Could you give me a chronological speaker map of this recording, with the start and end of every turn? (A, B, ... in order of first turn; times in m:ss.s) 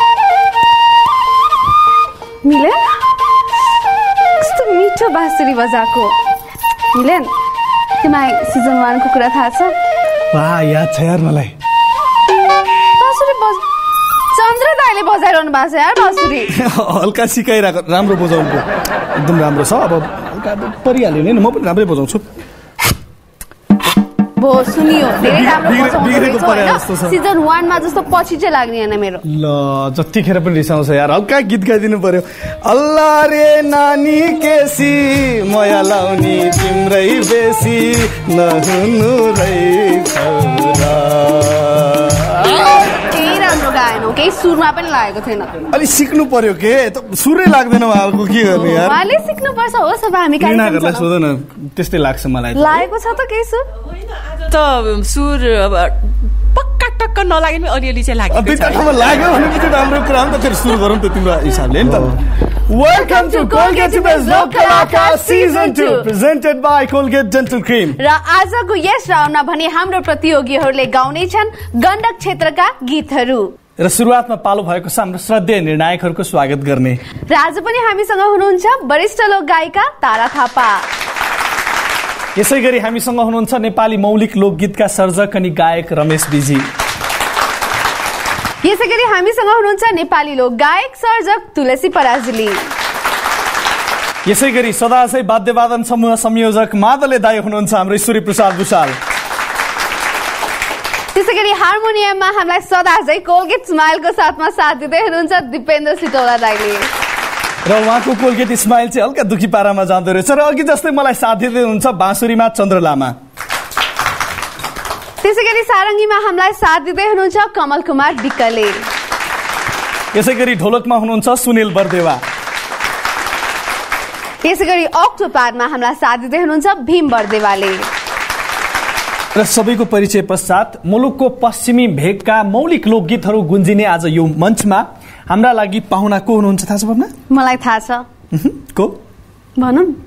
0:02.4-0:02.8 A
0:04.4-0:06.2 A
0:06.9-0:07.3 A
0:08.0-0:09.7 A
0:10.3-0:11.5 B
0:13.0-0:13.6 A
0:14.3-0:16.5 A
0:16.5-0:22.2 B
0:24.4-0:29.2 A
0:25.2-0:27.2 B
0:29.3-0:42.7 B
0:42.6-0:45.5 A
0:45.7-0:49.0 B
0:48.5-0:51.1 A
0:50.4-0:52.8 B
0:52.5-0:53.7 A
0:54.2-0:59.3 C
0:58.3-1:08.0 B
1:02.9-1:06.0 A
1:08.0-1:13.5 A
1:13.8-1:17.0 B
1:17.3-1:20.9 A
1:22.4-1:26.7 B
1:28.6-1:32.6 A
1:34.2-1:39.0 B
1:41.1-1:46.9 A
1:47.6-1:53.2 B
1:55.2-1:58.9 A
2:00.1-2:02.2 B
2:04.4-2:07.9 A
2:09.4-2:17.1 B
2:17.3-2:18.0 A
2:18.3-2:19.0 B
2:19.6-2:20.0 A